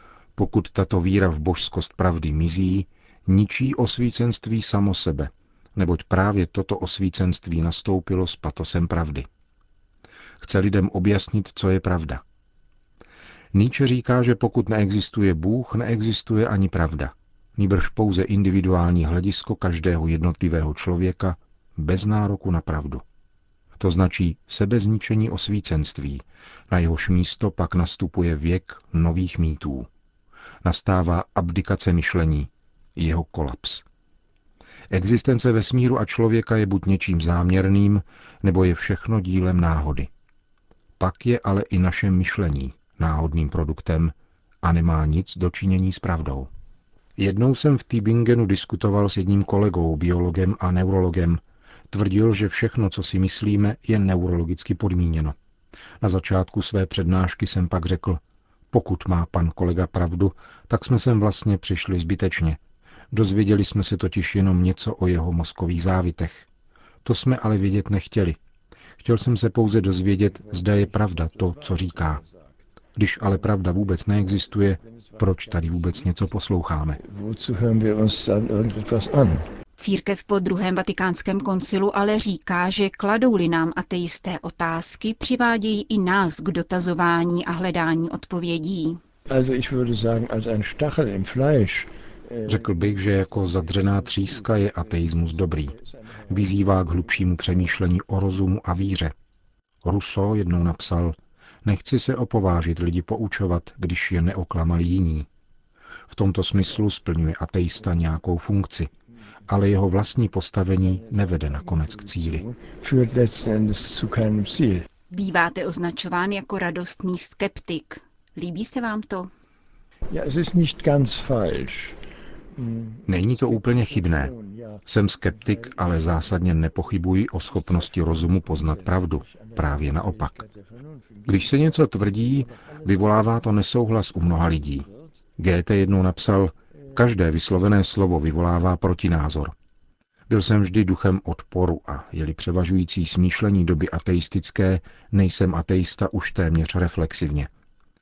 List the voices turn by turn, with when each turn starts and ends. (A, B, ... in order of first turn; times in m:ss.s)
0:00.4-0:09.3 A
0:10.4-0:12.2 A
0:13.5-0:23.0 A
0:23.8-0:29.9 A
0:30.6-0:33.8 A
0:34.9-0:40.1 A
0:41.0-0:46.5 A
0:47.2-0:55.4 A
0:56.0-1:02.6 A
1:03.1-1:06.5 A
1:07.0-1:08.4 A
1:09.0-1:12.2 A
1:10.2-1:12.6 B
1:13.0-1:17.0 A
1:13.2-1:16.2 B
1:17.0-1:19.5 B
1:19.8-1:29.0 C
1:29.3-1:37.8 B
1:32.5-1:35.7 A
1:36.3-1:39.1 A
1:39.8-1:45.3 A
1:46.1-1:48.9 A
1:49.5-1:52.4 A
1:50.8-1:54.9 B
1:55.1-1:59.3 C
2:00.1-2:02.0 B
2:02.5-2:15.1 B
2:03.1-2:04.3 A
2:04.8-2:10.4 A
2:11.3-2:19.5 A
2:20.3-2:27.5 A